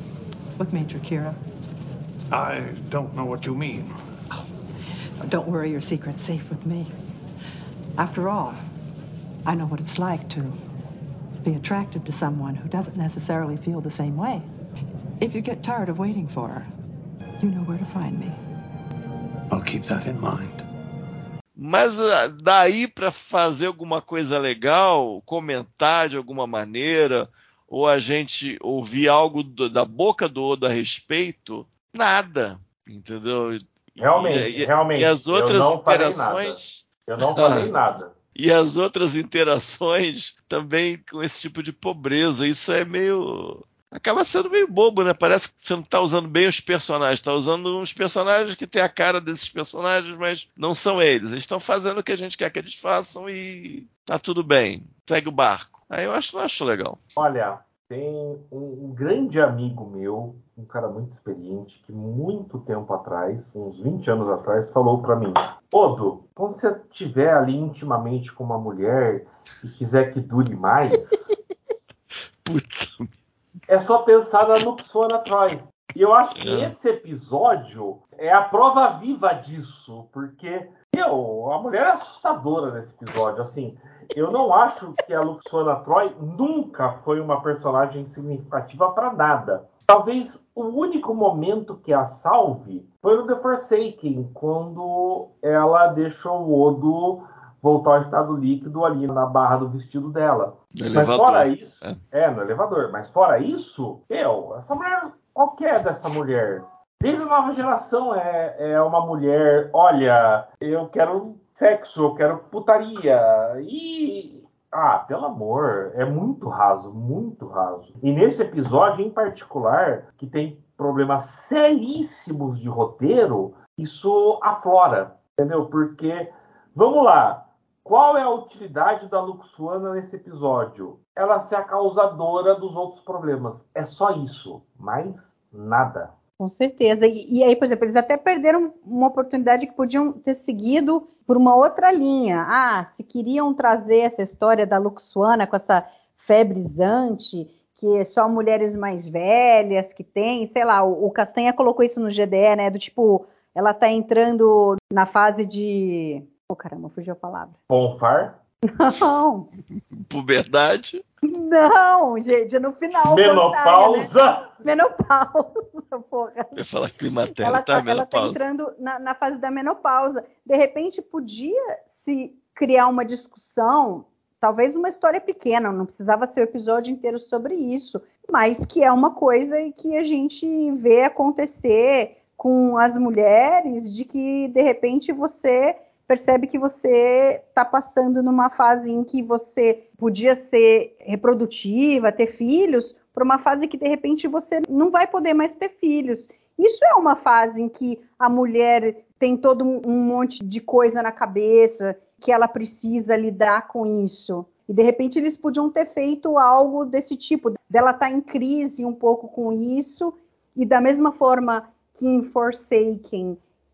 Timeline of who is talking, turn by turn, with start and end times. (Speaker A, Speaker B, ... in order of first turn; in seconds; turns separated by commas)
Speaker A: 0.6-1.4, Speaker B: 2.3-4.0, Speaker A: 5.2-6.9, Speaker A: 8.0-8.6, Speaker A: 9.4-10.6, Speaker A: 11.4-14.5, Speaker A: 15.2-16.7, Speaker A: 17.4-18.4, Speaker B: 19.5-20.6, Speaker C: 21.6-37.7, Speaker D: 34.0-38.1, Speaker C: 38.4-57.0, Speaker D: 57.2-71.3, Speaker C: 72.4-73.1, Speaker D: 73.7-136.1, Speaker C: 76.4-76.7, Speaker C: 100.8-102.0, Speaker E: 136.4-157.6, Speaker D: 157.7-158.4, Speaker E: 158.7-159.5, Speaker C: 159.9-161.0, Speaker E: 161.3-164.1, Speaker D: 163.0-164.5, Speaker E: 164.6-166.6, Speaker C: 166.6-168.4, Speaker E: 167.4-213.4